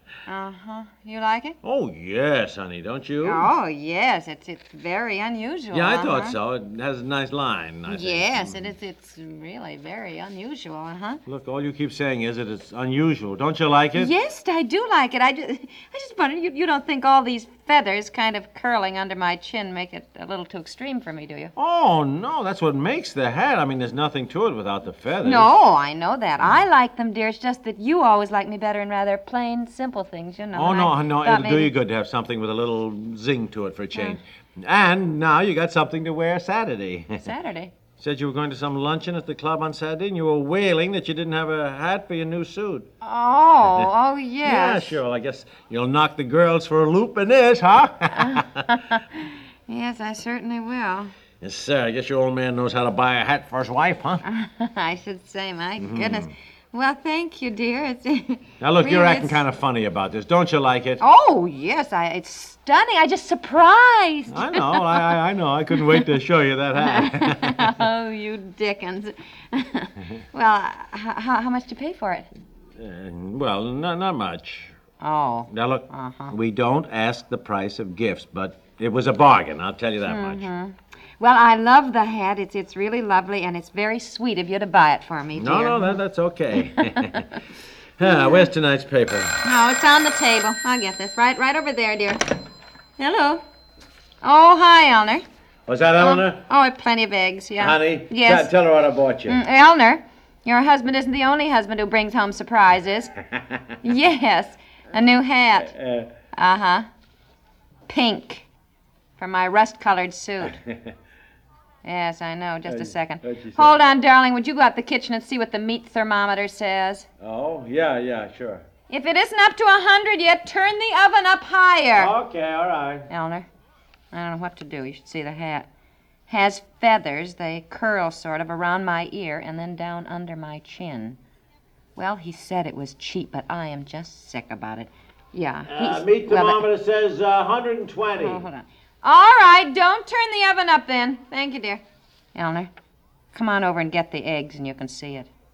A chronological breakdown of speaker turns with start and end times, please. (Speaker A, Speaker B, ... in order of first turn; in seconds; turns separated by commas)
Speaker A: 0.3-1.6, Speaker B: 1.6-3.5, Speaker A: 3.2-6.4, Speaker B: 5.7-8.7, Speaker A: 7.9-11.2, Speaker B: 11.3-14.1, Speaker A: 13.9-21.5, Speaker B: 21.6-25.5, Speaker A: 25.2-31.7, Speaker B: 30.5-37.2, Speaker A: 33.9-34.2, Speaker A: 37.2-37.7, Speaker B: 38.0-42.9, Speaker A: 43.0-45.0, Speaker B: 44.4-48.5, Speaker A: 48.2-51.1, Speaker B: 51.4-54.2, Speaker A: 54.2-59.4, Speaker B: 55.8-56.3, Speaker B: 58.6-61.0, Speaker A: 61.0-65.1, Speaker B: 64.3-67.7, Speaker A: 65.7-66.0, Speaker A: 66.8-72.3, Speaker B: 72.8-74.7, Speaker A: 75.0-76.3, Speaker B: 75.5-80.5, Speaker A: 80.0-86.0, Speaker B: 85.3-87.4, Speaker A: 86.8-87.1, Speaker B: 88.0-89.4, Speaker A: 88.0-88.5, Speaker A: 89.4-92.3, Speaker A: 93.0-93.4, Speaker A: 94.2-95.2, Speaker B: 95.7-96.4, Speaker A: 96.0-98.5, Speaker B: 97.6-99.4, Speaker A: 99.3-103.1, Speaker B: 103.3-103.6, Speaker A: 103.8-105.7, Speaker B: 105.7-106.1, Speaker A: 106.3-106.9, Speaker A: 107.9-108.5, Speaker A: 109.2-110.6, Speaker B: 110.6-110.9, Speaker A: 111.8-117.1, Speaker B: 112.7-113.8, Speaker B: 117.2-118.7, Speaker A: 118.9-122.1, Speaker B: 122.0-123.1, Speaker A: 123.1-123.5, Speaker A: 124.1-125.7, Speaker A: 126.3-131.2, Speaker A: 132.0-136.6, Speaker B: 135.7-138.4, Speaker A: 138.2-141.8, Speaker A: 142.3-142.7, Speaker A: 143.3-145.3